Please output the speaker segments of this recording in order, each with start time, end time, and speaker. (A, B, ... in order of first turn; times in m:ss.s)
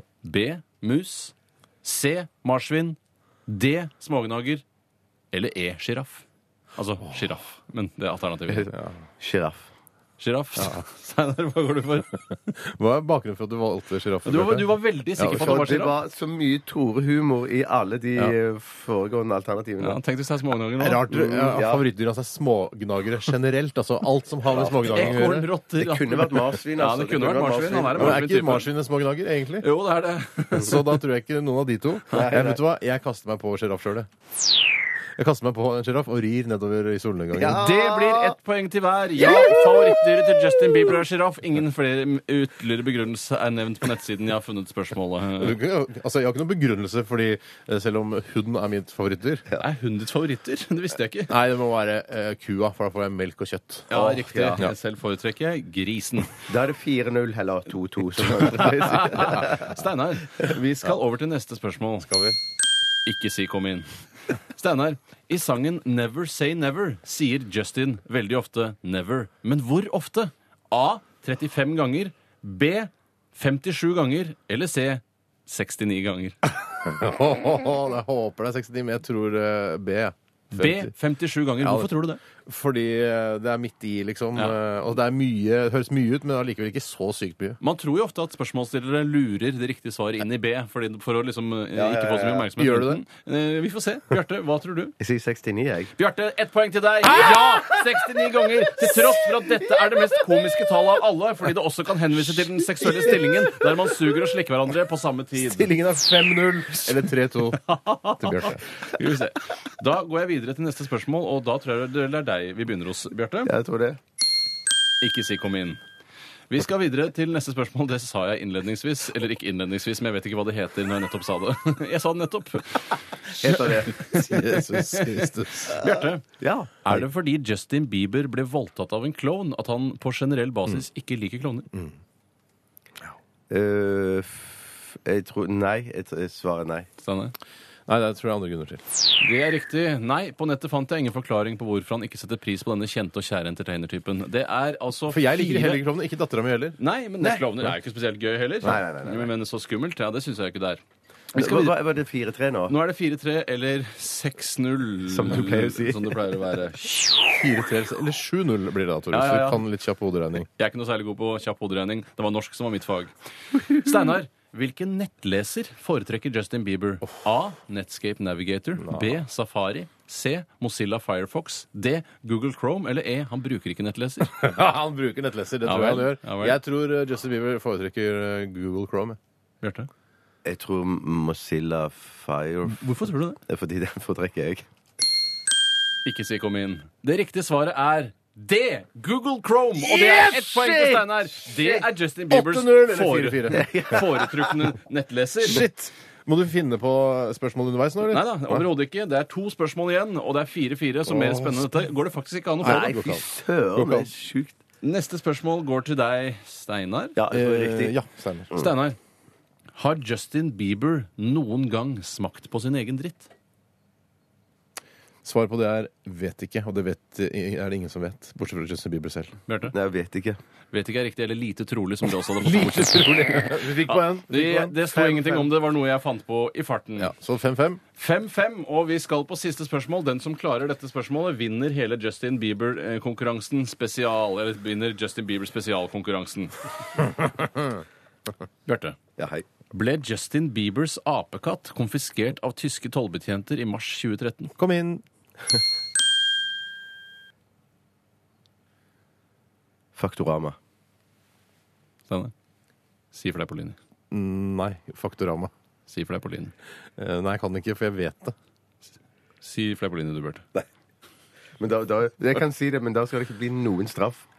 0:00.2-0:04.6 A
0:05.3-0:06.2 A
0:06.8-0:08.7 A
0:08.5-0:09.7 B
0:10.2-0:12.5 A
0:10.6-0:10.8 C
0:12.6-0:15.7 C
0:14.2-0:16.0 A
0:15.2-0:20.0 B
0:19.8-0:21.1 A
0:20.8-0:25.5 C
0:21.1-0:21.8 B
0:24.5-0:25.2 B
0:24.8-0:28.7 A
0:25.8-0:28.2 B
0:27.9-0:29.7 C
0:29.6-0:31.0 A
0:30.5-0:34.1 C
0:32.1-0:32.6 B
0:35.2-0:37.6 C
0:37.3-0:38.4 B
0:37.5-0:45.6 A
0:39.4-0:39.6 B
0:45.4-0:49.4 C
0:49.6-0:51.3 A
0:51.3-0:53.9 C
0:53.9-0:56.3 A
0:53.9-0:54.6 B
0:56.5-0:59.7 B
0:58.5-1:02.1 A
1:02.0-1:02.4 C
1:03.0-1:03.9 A
1:04.5-1:16.4 A
1:16.4-1:20.9 C
1:20.5-1:22.2 A
1:21.6-1:21.9 C
1:22.4-1:27.6 C
1:27.6-1:34.9 A
1:31.7-1:32.5 B
1:32.6-1:33.0 C
1:35.0-1:35.9 B
1:36.0-1:45.7 A
1:37.2-1:37.8 C
1:45.4-1:47.6 C
1:47.6-1:53.5 A
1:48.2-1:48.6 C
1:53.4-1:54.0 B
1:55.0-1:55.8 A
1:56.5-2:06.2 A
2:03.4-2:04.0 B
2:04.0-2:05.7 C
2:05.8-2:06.8 B
2:06.8-2:11.7 A
2:13.5-2:16.9 B
2:17.0-2:17.3 A
2:17.9-2:18.8 C
2:19.2-2:25.8 A
2:25.1-2:26.8 C
2:26.8-2:30.8 A
2:28.6-2:29.3 B
2:31.3-2:31.8 A
2:31.3-2:32.7 B
2:32.7-2:37.2 A
2:35.1-2:36.2 B
2:37.3-2:40.5 C
2:39.1-2:39.6 A
2:40.6-2:43.1 A
2:43.6-2:54.4 A
2:48.8-2:49.2 C
2:54.3-2:59.2 C
2:55.6-2:56.6 A
2:59.6-2:59.9 A
3:00.4-3:02.8 B
3:02.7-3:03.4 A
3:03.4-3:04.6 B
3:06.0-3:15.7 A
3:09.8-3:11.0 C
3:12.3-3:13.7 C
3:13.6-3:14.5 B
3:15.4-3:18.6 C
3:18.1-3:23.0 A
3:21.0-3:21.7 C
3:22.6-3:23.2 C
3:22.6-3:24.6 B
3:23.7-3:24.1 C
3:24.8-3:27.2 A
3:27.2-3:28.0 B
3:27.3-3:28.5 C
3:28.5-3:29.0 A
3:29.7-3:33.3 A
3:35.2-3:39.4 C
3:39.5-3:39.7 A
3:39.7-3:40.4 B
3:40.7-3:47.1 A
3:42.4-3:45.1 C
3:44.9-3:45.4 B
3:47.0-3:47.8 C
3:48.0-3:57.0 A
3:58.6-3:59.0 A
3:59.2-3:59.4 B
3:59.7-4:04.5 A
4:04.6-4:05.0 C
4:10.0-4:10.6 B
4:13.1-4:13.8 A
4:14.1-4:15.5 C
4:15.9-4:16.5 A
4:17.0-4:18.3 C
4:19.4-4:20.4 A
4:21.6-4:24.2 B